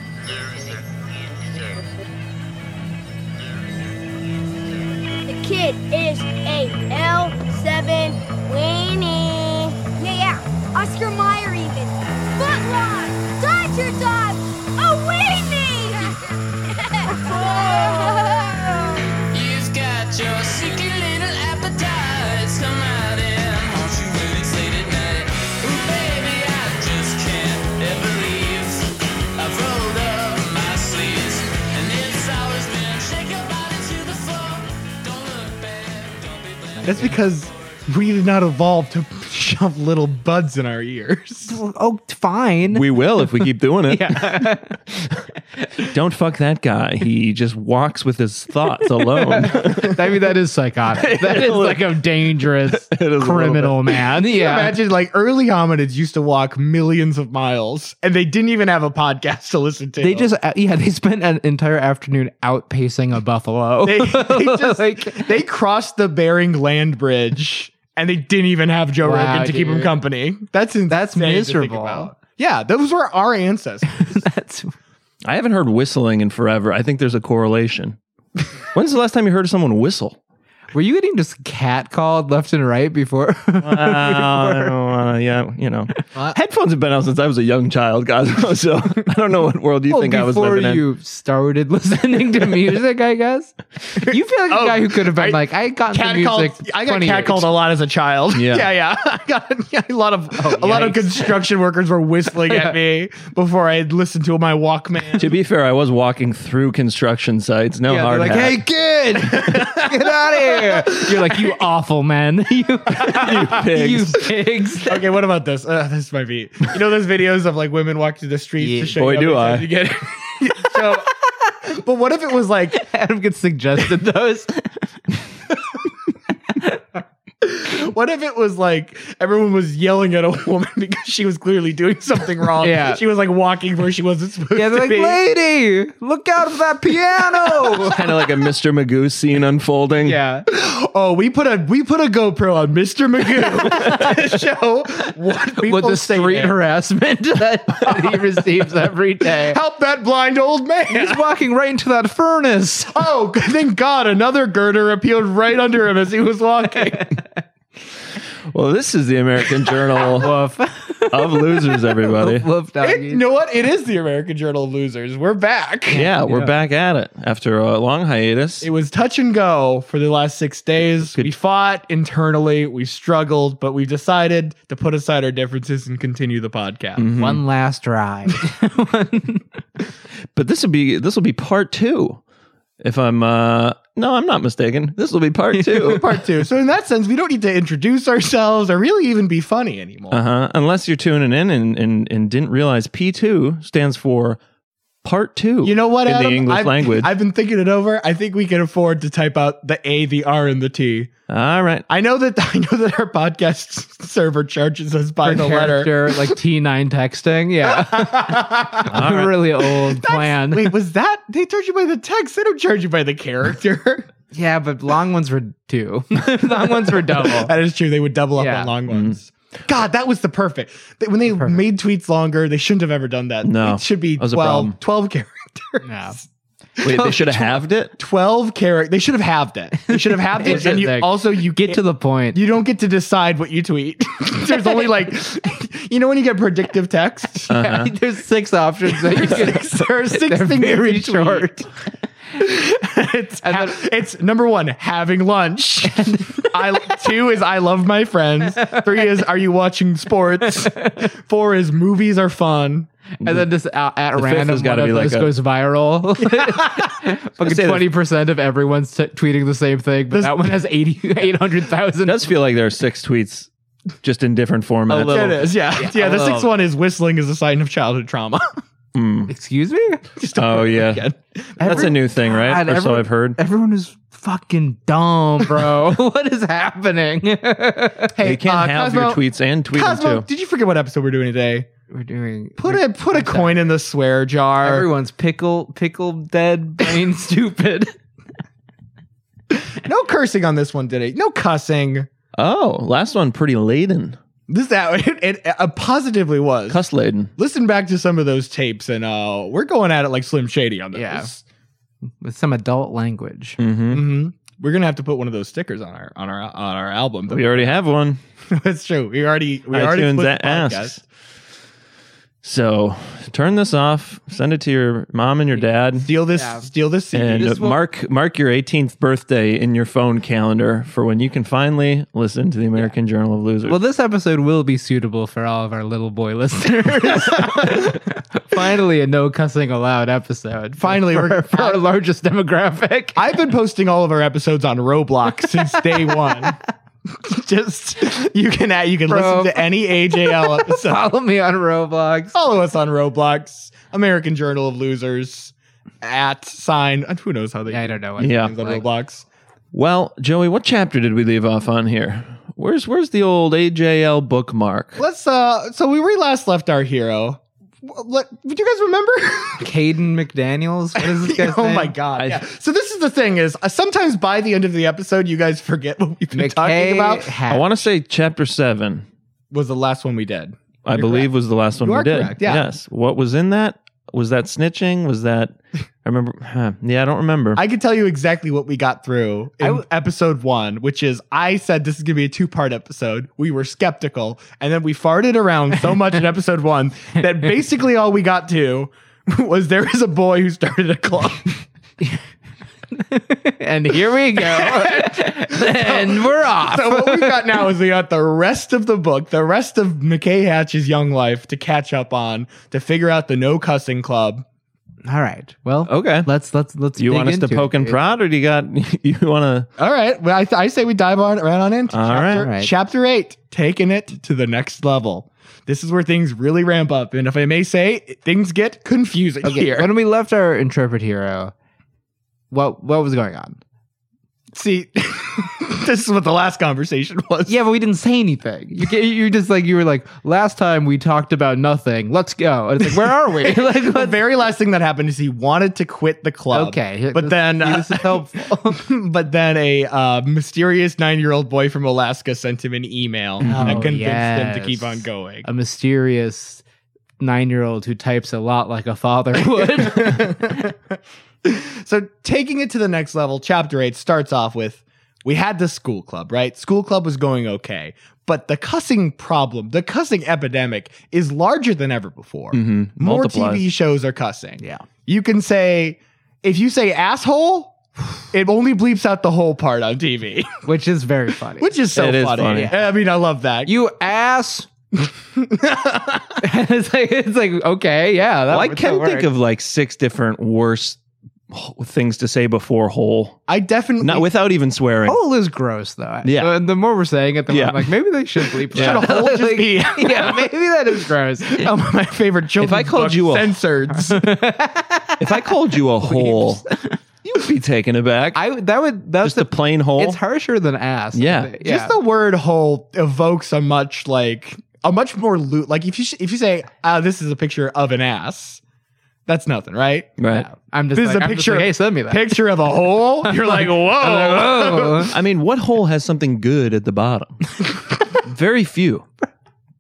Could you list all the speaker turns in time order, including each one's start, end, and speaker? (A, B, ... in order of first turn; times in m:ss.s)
0:05.2-0:19.0 A
0:17.3-0:18.2 B
0:19.3-0:37.1 B
0:36.8-0:37.2 C
0:36.8-0:41.6 D
0:41.5-0:44.8 C
0:42.7-0:44.6 E
0:45.8-0:50.2 E
0:49.0-0:54.7 C
0:51.0-0:52.0 E
0:52.7-0:54.0 E
0:54.3-1:00.3 D
1:00.0-1:05.3 C
1:03.8-1:14.2 D
1:09.0-1:09.9 C
1:10.9-1:12.1 C
1:13.9-1:14.8 C
1:15.2-1:18.0 E
1:18.7-1:20.2 E
1:20.7-1:24.8 C
1:23.6-1:30.8 E
1:29.9-1:37.5 C
1:34.0-1:45.3 D
1:38.3-1:38.7 E
1:40.4-1:41.4 C
1:42.4-1:42.8 C
1:45.2-1:48.6 E
1:47.9-1:55.0 C
1:49.2-1:51.5 D
1:53.0-1:54.2 E
1:53.1-1:53.3 D
1:54.9-2:01.1 D
1:58.6-1:59.0 C
1:59.0-1:59.7 E
2:01.7-2:02.8 D
2:02.7-2:04.9 C
2:07.4-2:15.2 D
2:12.6-2:13.0 C
2:14.5-2:18.0 C
2:17.8-2:20.2 E
2:20.0-2:20.5 C
2:20.5-2:26.6 D
2:23.8-2:24.1 C
2:25.6-2:29.6 C
2:27.8-2:28.2 D
2:29.3-2:31.2 D
2:30.9-2:33.0 C
2:32.9-2:37.2 D
2:38.5-2:40.3 E
2:40.0-2:43.2 C
2:41.1-2:42.5 E
2:42.8-2:46.1 D
2:45.9-2:48.7 E
2:45.9-2:46.5 C
2:48.6-2:57.1 D
2:57.0-2:57.4 E
2:57.2-2:59.4 C
3:00.3-3:02.2 E
3:02.8-3:06.2 E
3:05.5-3:10.2 D
3:10.1-3:14.4 E
3:15.0-3:17.1 E
3:15.6-3:21.1 D
3:21.3-3:21.8 E
3:21.9-3:26.4 D
3:25.2-3:30.7 C
3:27.7-3:29.0 D
3:28.9-3:29.4 E
3:29.8-3:34.1 D
3:34.3-3:37.5 C
3:36.5-3:46.3 D
3:38.4-3:38.7 C
3:38.9-3:39.2 E
3:41.3-3:41.6 C
3:43.4-3:44.8 E
3:45.8-3:46.2 C
3:46.8-3:51.8 D
3:46.8-3:47.9 E
3:49.9-3:52.4 C
3:52.3-3:57.5 D
3:57.5-3:57.9 E
3:57.5-4:01.7 C
3:58.9-4:01.6 D
4:02.3-4:12.9 D
4:03.4-4:03.8 C
4:13.2-4:22.3 C
4:14.2-4:15.3 E
4:16.3-4:16.8 D
4:17.4-4:17.9 E
4:20.1-4:20.6 D
4:22.0-4:23.5 E
4:24.0-4:25.4 E
4:24.9-4:26.5 C
4:24.9-4:28.6 D
4:28.9-4:29.3 E
4:29.3-4:30.0 C
4:30.2-4:31.9 D
4:30.3-4:31.0 E
4:31.6-4:38.1 C
4:31.6-4:33.4 E
4:38.1-4:41.7 D
4:38.2-4:40.2 E
4:41.9-4:43.7 C
4:42.6-4:44.9 D
4:44.6-4:47.9 C
4:49.5-4:52.1 D
4:52.4-4:54.2 E
4:54.5-4:56.8 D
4:56.7-4:57.3 E
4:57.4-5:01.4 D
5:00.9-5:01.3 C
5:02.2-5:03.6 C
5:03.6-5:04.0 E
5:03.9-5:07.7 D
5:07.3-5:08.2 E
5:08.5-5:11.0 D
5:09.7-5:11.0 E
5:12.4-5:16.1 E
5:16.0-5:17.8 D
5:16.3-5:16.7 C
5:17.1-5:23.8 E
5:17.4-5:17.7 C
5:23.6-5:33.2 C
5:30.8-5:31.8 D
5:33.2-5:41.1 D
5:39.1-5:42.3 C
5:42.3-5:49.2 D
5:47.7-5:48.8 C
5:48.2-5:48.5 E
5:49.7-5:55.0 E
5:55.0-5:59.6 D
5:59.6-6:01.9 C
6:01.0-6:07.4 D
6:02.2-6:02.4 E
6:06.3-6:07.8 C
6:07.5-6:09.0 E
6:09.5-6:11.3 D
6:10.8-6:17.6 E
6:11.8-6:12.7 D
6:17.5-6:31.6 D
6:32.9-6:37.5 C
6:34.4-6:44.4 D
6:45.0-6:48.0 C
6:45.9-6:46.3 E
6:47.0-6:49.7 E
6:49.8-6:59.9 D
6:51.9-6:52.5 E
6:52.4-6:52.7 C
6:59.4-7:01.5 C
7:02.5-7:03.6 C
7:04.5-7:07.5 D
7:07.5-7:14.2 C
7:13.0-7:25.5 D
7:16.5-7:18.8 C
7:23.4-7:23.8 E
7:23.5-7:26.6 C
7:27.2-7:30.7 C
7:29.6-7:30.8 D
7:31.4-7:50.6 D
7:42.5-7:43.6 E
7:44.6-7:44.8 C
7:50.6-7:51.8 C
7:51.6-7:53.7 D
7:51.9-7:52.7 E
7:52.5-7:52.8 C
7:53.6-7:54.7 C
7:55.0-7:56.4 D
7:56.4-7:59.3 C
7:58.5-8:01.0 E
8:01.5-8:03.4 E
8:03.5-8:04.3 D
8:04.0-8:05.2 E
8:05.1-8:11.7 C
8:06.2-8:06.5 E
8:07.5-8:07.9 E
8:08.7-8:10.5 D
8:08.7-8:09.0 E
8:11.4-8:14.4 D
8:12.6-8:13.6 E
8:14.0-8:17.0 C
8:15.2-8:16.6 E
8:17.2-8:18.4 E
8:18.3-8:22.0 C
8:19.2-8:20.2 E
8:21.1-8:21.5 E
8:21.6-8:28.6 D
8:29.3-8:30.1 D
8:30.2-8:30.5 E
8:30.3-8:32.5 C
8:30.9-8:35.1 D
8:33.2-8:35.1 C
8:35.0-8:37.4 E
8:38.1-8:39.0 E